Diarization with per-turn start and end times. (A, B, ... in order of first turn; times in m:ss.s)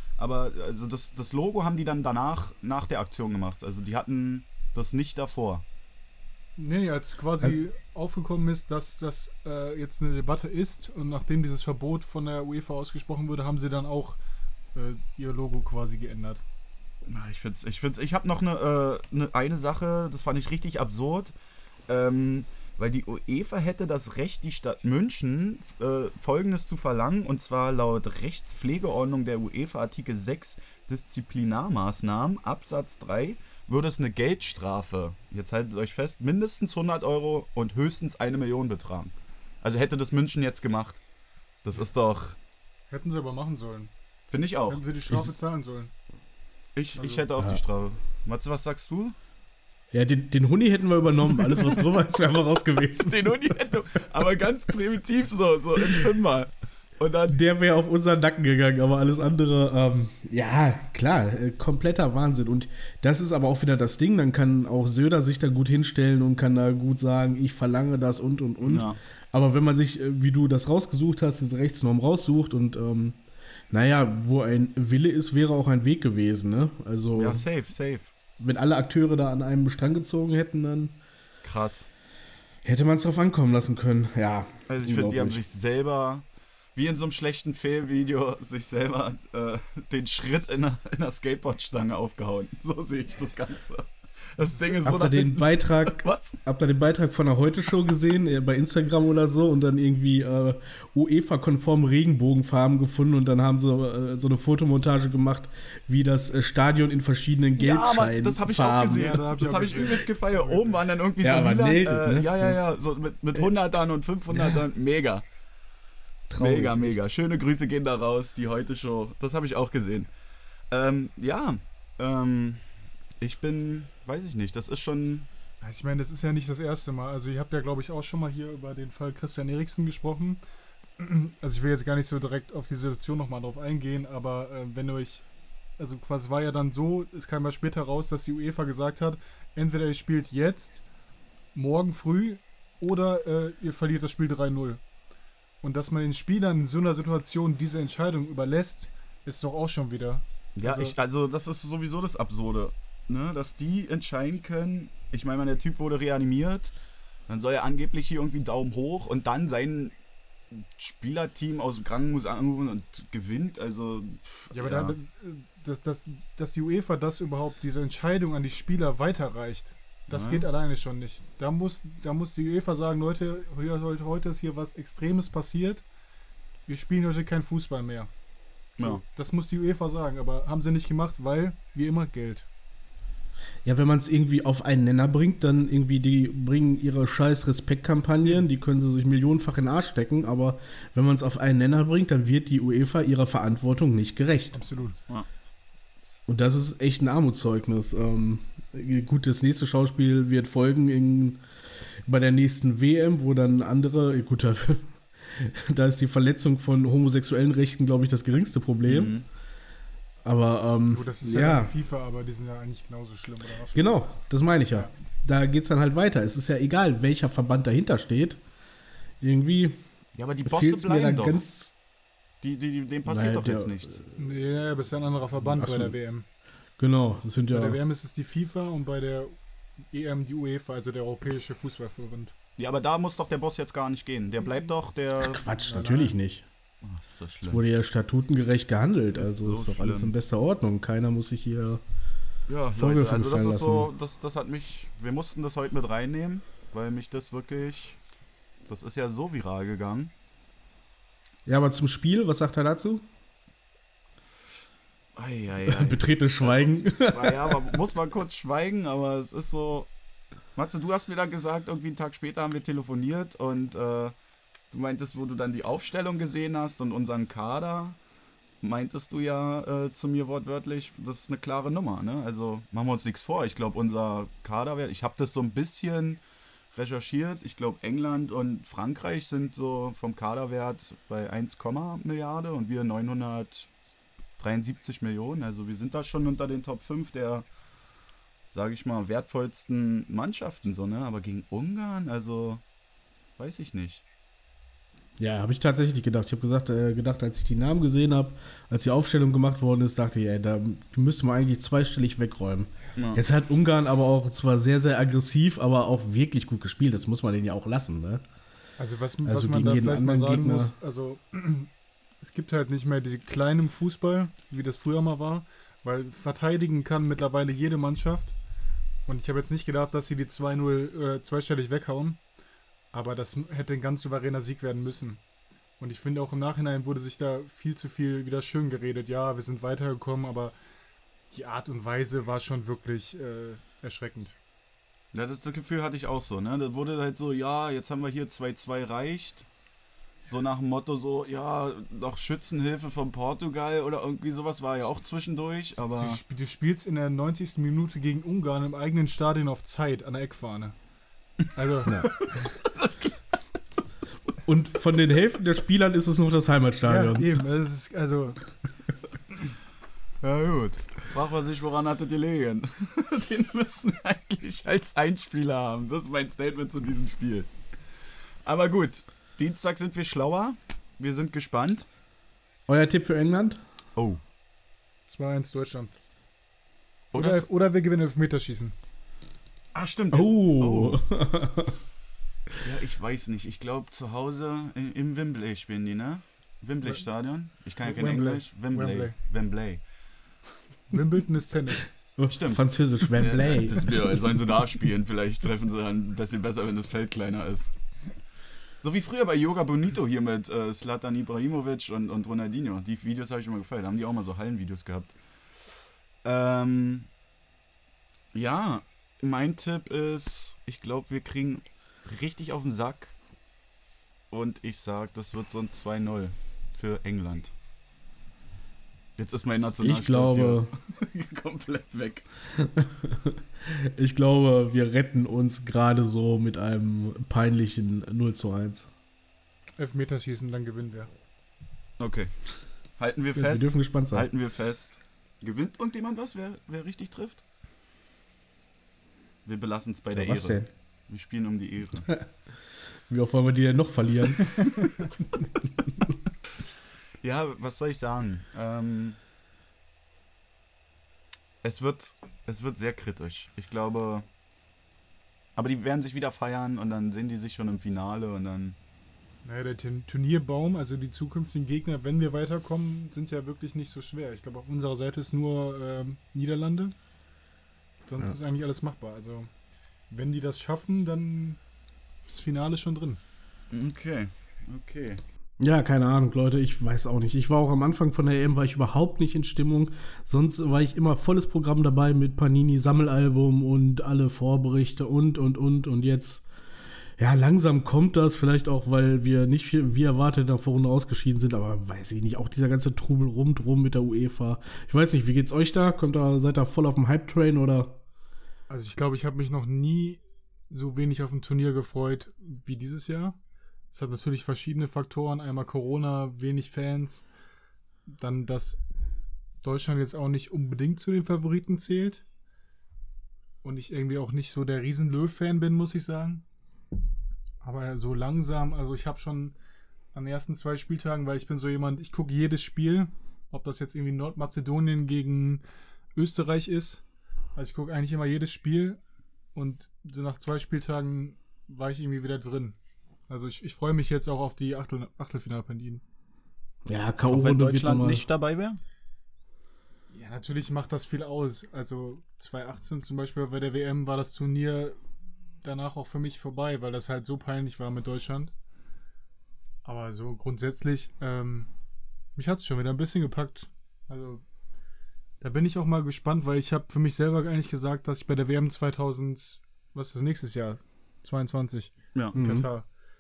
0:00.2-0:05.6 A
0:06.6-0:14.2 B
0:14.8-0:16.4 B
0:17.1-0:21.3 A
0:21.9-0:41.0 A
0:41.6-0:42.4 A
0:42.9-0:43.9 B
0:44.3-0:44.8 A
0:44.7-0:45.9 B
0:46.8-0:49.2 A
0:47.0-0:47.2 B
0:49.9-0:53.6 C
0:53.0-0:57.4 A
0:57.3-1:13.2 C
1:08.6-1:09.0 A
1:13.7-1:17.4 C
1:17.2-1:18.1 A
1:18.4-1:21.0 C
1:21.4-1:21.9 A
1:22.6-1:25.4 C
1:24.7-1:36.4 A
1:34.6-1:49.2 C
1:47.6-1:55.2 A
1:48.8-1:50.8 B
1:51.2-1:52.7 C
1:54.3-1:54.6 C
1:56.3-1:57.0 C
1:56.4-2:00.1 A
2:00.7-2:02.6 A
2:03.2-2:05.3 A
2:05.6-2:10.4 B
2:11.0-2:15.3 B
2:15.8-2:20.8 B
2:21.5-2:24.8 B
2:25.6-2:31.0 B
2:30.6-2:36.7 A
2:37.3-2:40.0 A
2:40.5-2:45.0 A
2:44.5-2:55.8 B
2:50.1-2:50.5 A
2:56.7-2:58.1 B
2:58.8-3:02.5 B
3:03.6-3:14.6 C
3:14.5-3:15.0 B
3:16.3-3:21.4 C
3:22.0-3:29.2 C
3:28.8-3:29.3 A
3:30.2-3:31.7 C
3:30.9-3:34.0 B
3:33.8-3:38.4 C
3:39.2-3:39.8 C
3:40.2-3:41.4 A
3:40.4-3:41.8 C
3:42.4-3:44.0 A
3:43.0-3:44.1 C
3:44.2-3:46.3 B
3:45.6-3:45.9 C
3:46.8-3:47.8 C
3:47.5-3:49.4 B
3:49.9-3:52.4 B
3:52.6-3:55.4 A
3:55.2-3:56.5 C
3:55.5-3:56.2 B
3:56.8-3:57.6 A
3:57.4-4:01.8 C
3:59.2-4:00.1 A
4:02.5-4:08.0 A
4:02.8-4:03.9 C
4:08.7-4:10.1 A
4:11.5-4:13.1 C
4:15.2-4:19.9 A
4:15.7-4:17.8 C
4:20.6-4:24.1 A
4:24.7-4:28.0 A
4:28.6-4:36.2 A
4:36.7-4:43.7 A
4:44.4-4:47.5 A
4:48.5-4:52.6 A
4:53.4-4:54.0 A
4:55.2-5:08.2 C
5:03.0-5:03.2 A
5:08.8-5:18.4 B
5:09.2-5:10.7 C
5:19.1-5:22.2 B
5:22.9-5:25.2 B
5:25.8-5:30.6 B
5:31.3-5:34.4 B
5:35.1-5:39.5 A
5:40.3-5:46.2 A
5:45.8-5:50.8 B
5:51.5-5:52.3 B
5:52.8-5:53.1 A
5:54.4-5:57.4 C
5:56.8-5:58.4 B
6:00.2-6:07.5 A
6:08.4-6:11.9 A
6:12.7-6:13.6 C
6:14.0-6:14.2 A
6:15.1-6:16.0 B
6:17.1-6:17.5 A
6:17.1-6:18.8 B
6:19.7-6:21.0 A
6:20.1-6:21.8 C
6:22.6-6:29.8 A
6:27.8-6:29.2 B
6:30.9-6:31.9 B
6:32.2-6:34.2 C
6:32.3-6:37.7 A
6:38.8-6:45.2 A
6:46.2-6:47.1 A
6:48.3-6:53.2 A
6:54.3-6:57.5 A
6:59.2-7:02.3 A
6:59.8-7:00.7 C
7:02.6-7:08.9 C
7:09.8-7:11.1 B
7:12.0-7:12.3 A
7:13.0-7:17.4 A
7:13.4-7:14.3 C
7:19.4-7:22.1 A
7:20.1-7:20.7 C
7:22.1-7:24.7 C
7:25.2-7:25.7 C
7:27.2-7:29.2 A
7:31.6-7:34.3 A
7:35.6-7:38.8 A
7:39.4-7:47.0 B
7:48.1-7:49.5 B
7:50.1-7:51.6 B
7:52.3-7:53.2 B
7:53.7-7:55.2 A
7:55.6-8:06.4 C
8:07.2-8:18.0 C
8:18.7-8:23.4 B
8:23.9-8:27.3 B
8:28.1-8:28.8 B
8:29.6-8:32.2 B
8:33.6-8:36.4 B
8:37.6-8:39.6 B
8:40.1-8:45.6 B
8:46.2-8:47.0 B
8:47.6-8:49.0 B
8:49.6-8:52.8 B
8:53.3-8:56.0 B
8:56.9-8:58.2 C
8:57.3-8:58.8 A
9:00.1-9:05.0 B
9:05.6-9:08.5 B
9:09.8-9:11.7 B
9:12.4-9:14.4 B
9:15.4-9:22.9 B
9:22.4-9:22.7 C